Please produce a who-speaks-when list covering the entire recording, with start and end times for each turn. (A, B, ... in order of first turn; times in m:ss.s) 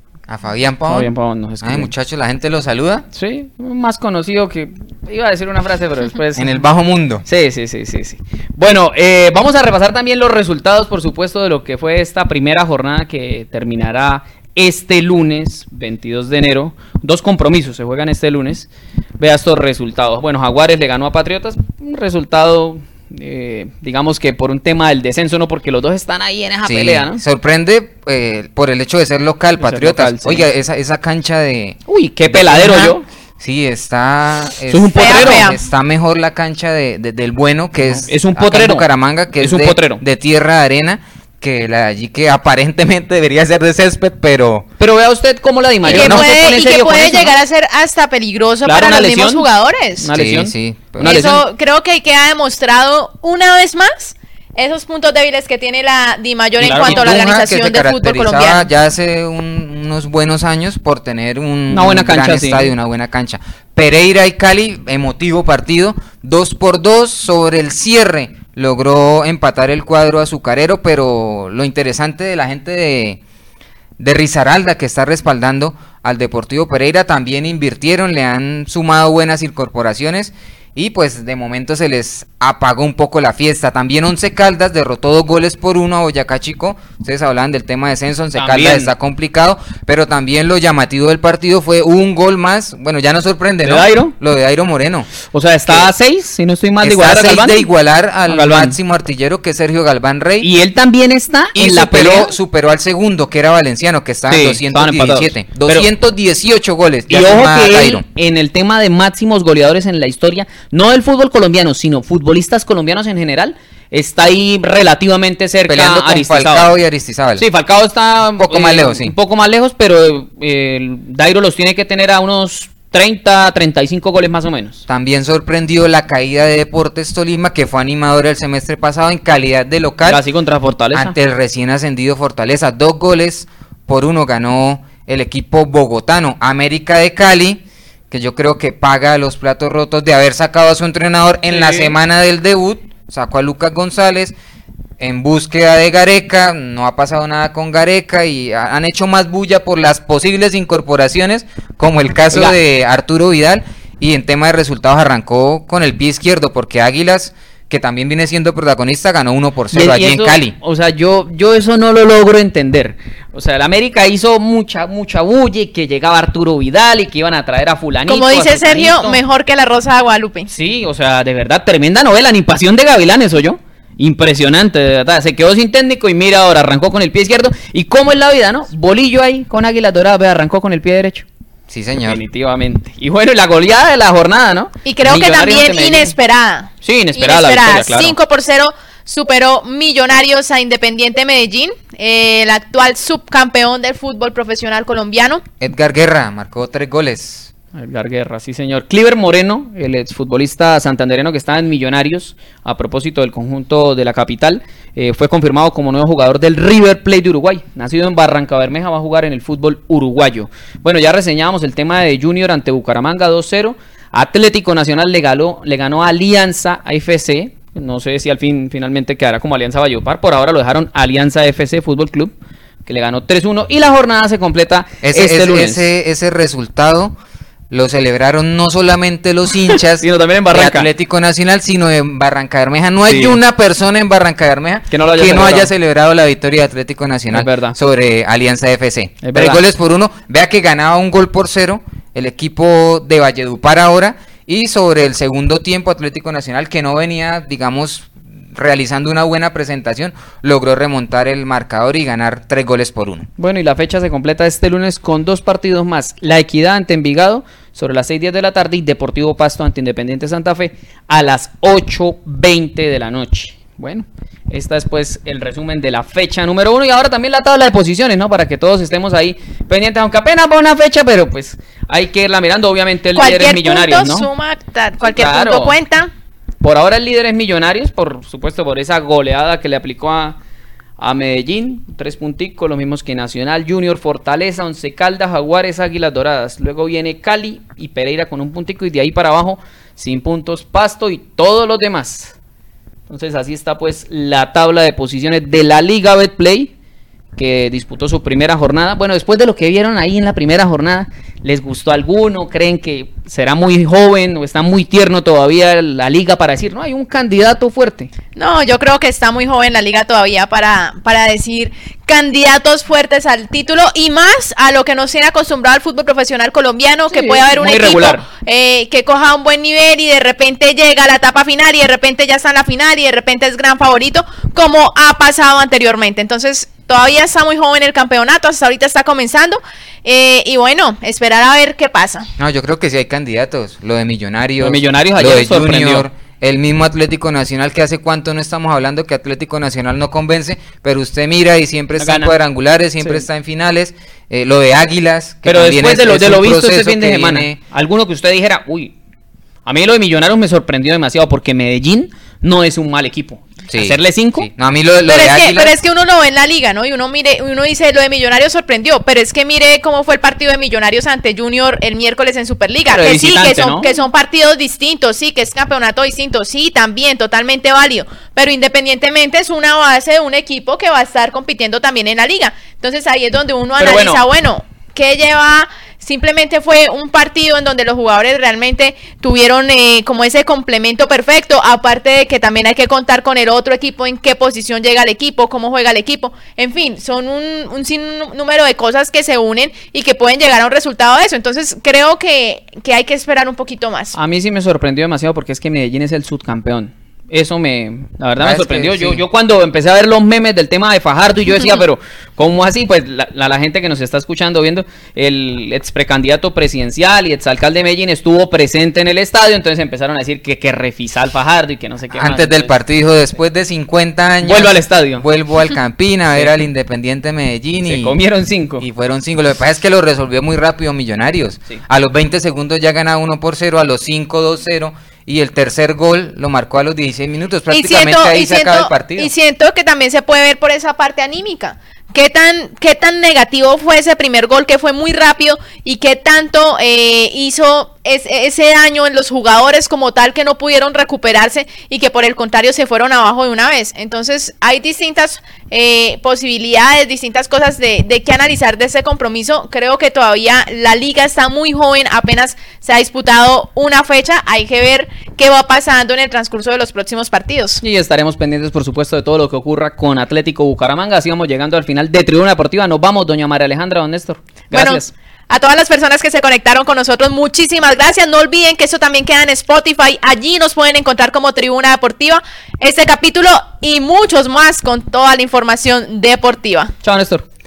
0:00.3-0:01.1 A
0:00.9-0:01.9 B
0:01.6-0:03.0 A
0:03.1-0:06.6 B
0:06.4-0:07.2 A
0:07.2-0:18.7 B
0:19.2-0:27.2 B
0:26.6-0:44.7 A
0:29.6-0:30.4 B
0:31.9-0:33.0 B
0:34.7-0:35.5 B
0:35.0-0:35.6 C
0:37.8-0:38.9 B
0:39.4-0:40.0 B
0:44.8-0:47.4 B
0:45.8-0:46.4 A
0:45.9-0:50.1 C
0:48.6-0:49.4 B
0:50.0-0:51.4 B
0:50.1-0:51.4 A
0:51.0-0:58.7 C
0:56.6-1:13.2 A
0:56.6-0:57.2 B
1:01.7-1:02.7 B
1:14.0-1:35.1 A
1:28.4-1:28.9 B
1:33.6-1:34.1 B
1:35.2-1:37.7 B
1:35.7-1:35.9 A
1:36.8-1:40.5 A
1:38.3-1:38.8 B
1:40.4-1:42.4 B
1:41.5-1:48.0 A
1:44.3-1:45.9 B
1:47.1-1:56.7 B
1:55.7-1:57.4 A
1:57.4-2:04.9 B
1:58.4-1:59.1 A
2:04.9-2:10.2 A
2:10.0-2:11.2 B
2:10.9-2:24.3 A
2:21.5-2:22.0 B
2:25.0-2:40.5 A
2:39.7-2:49.2 B
2:48.1-2:50.5 C
2:50.5-3:01.2 B
3:01.7-3:02.2 A
3:02.0-3:06.1 B
3:04.8-3:15.4 C
3:06.8-3:08.2 B
3:15.6-3:17.5 A
3:17.7-3:42.3 B
3:42.9-3:45.8 B
3:45.0-3:47.1 A
3:47.7-4:13.3 A
3:49.7-3:50.9 B
3:53.0-3:53.4 B
3:54.9-3:55.7 B
3:57.3-3:57.8 B
3:59.2-3:59.6 B
4:13.4-4:34.3 B
4:33.1-4:36.1 C
4:35.0-4:35.7 B
4:36.6-4:40.4 B
4:41.0-4:52.4 B
4:53.1-4:56.7 B
4:57.4-5:08.1 B
5:08.4-5:32.3 C
5:17.1-5:18.2 B
5:32.4-5:47.6 A
5:34.6-5:36.1 B
5:42.0-5:42.4 B
5:45.4-5:48.9 B
5:49.6-5:54.5 B
5:53.7-5:55.7 A
5:55.1-6:34.1 C
6:02.9-6:03.9 B
6:13.8-6:14.2 B
6:34.1-6:52.7 B
6:38.4-6:39.2 A
6:52.1-6:58.2 A
6:54.4-6:55.2 B
6:57.8-6:58.8 B
6:58.8-7:09.3 A
7:07.7-7:37.8 C
7:37.8-7:45.1 B
7:44.7-7:56.9 C
7:57.0-7:57.4 B